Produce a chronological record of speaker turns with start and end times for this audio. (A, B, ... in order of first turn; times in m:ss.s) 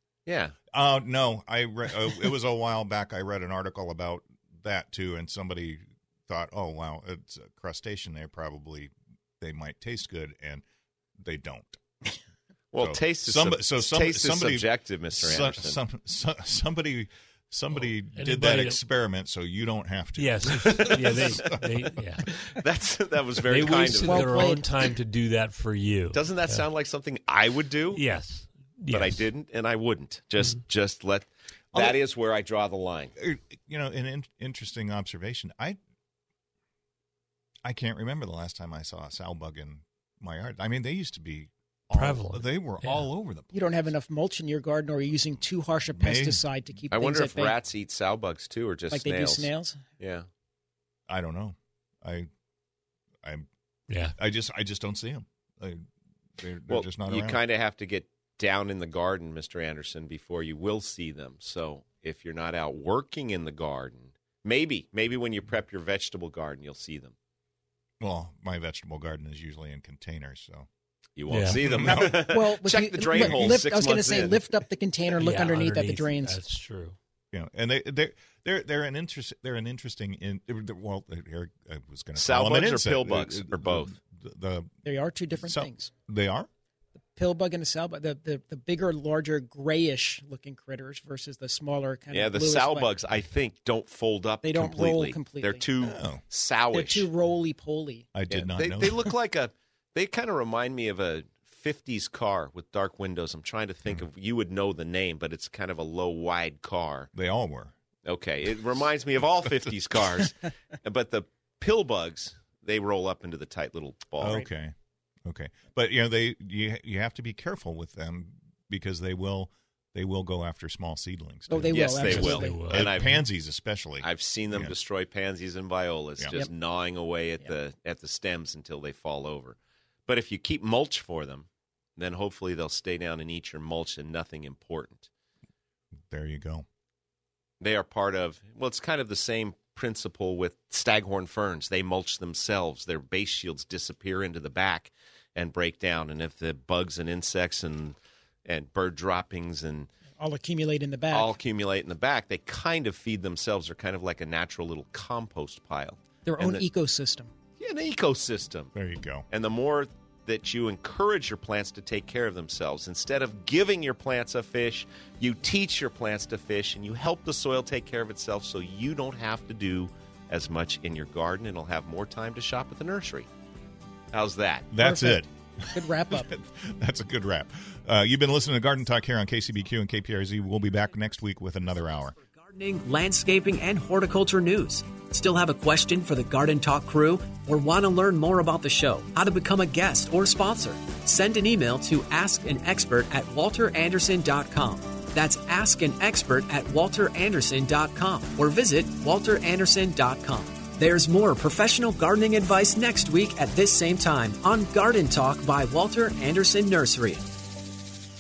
0:00.3-0:00.6 A
0:00.7-0:10.6 B
0:11.2-0:11.8 B
0:12.7-0:15.8 A
0:12.8-0:22.0 B
0:18.1-0:18.8 C
0:20.2-0:22.3 C
0:20.6-0:21.4 A
0:22.3-0:24.5 A
0:23.5-0:26.6 C
0:24.0-0:24.7 D
0:26.1-0:28.0 A
0:27.9-0:29.3 C
0:28.9-0:33.1 A
0:33.2-0:35.8 B
0:37.6-0:43.8 B
0:41.9-0:43.1 C
0:43.5-0:47.6 D
0:45.9-0:46.4 B
0:46.9-0:50.3 A
0:48.9-0:49.8 D
0:51.1-0:52.3 B
0:53.2-0:53.5 B
0:53.9-0:54.2 C
0:54.2-0:55.8 B
0:56.4-0:57.4 B
0:56.7-1:07.2 A
1:08.0-1:10.7 B
1:11.2-1:14.4 A
1:11.3-1:11.8 C
1:11.5-1:12.3 B
1:11.9-1:16.4 D
1:15.2-1:17.0 C
1:17.3-1:24.7 B
1:22.2-1:24.0 A
1:24.8-1:25.9 D
1:25.3-1:26.5 B
1:27.2-1:32.9 D
1:32.1-1:37.1 A
1:34.4-1:35.6 D
1:35.8-1:36.2 B
1:36.7-1:38.1 D
1:38.1-1:39.1 B
1:38.3-1:47.1 A
1:47.1-1:47.7 B
1:48.1-1:54.4 A
1:54.2-1:54.8 B
1:55.3-2:04.8 B
2:01.5-2:02.7 D
2:01.6-2:03.2 C
2:01.7-2:03.2 A
2:04.0-2:15.1 A
2:16.1-2:16.6 B
2:17.6-2:29.9 A
2:30.2-2:31.3 D
2:31.1-2:36.6 A
2:36.2-2:37.3 D
2:37.6-2:38.7 A
2:38.7-2:39.3 B
2:39.3-2:53.3 A
2:54.1-2:54.7 A
2:54.7-3:02.2 B
2:54.8-2:56.3 D
3:02.2-3:27.3 E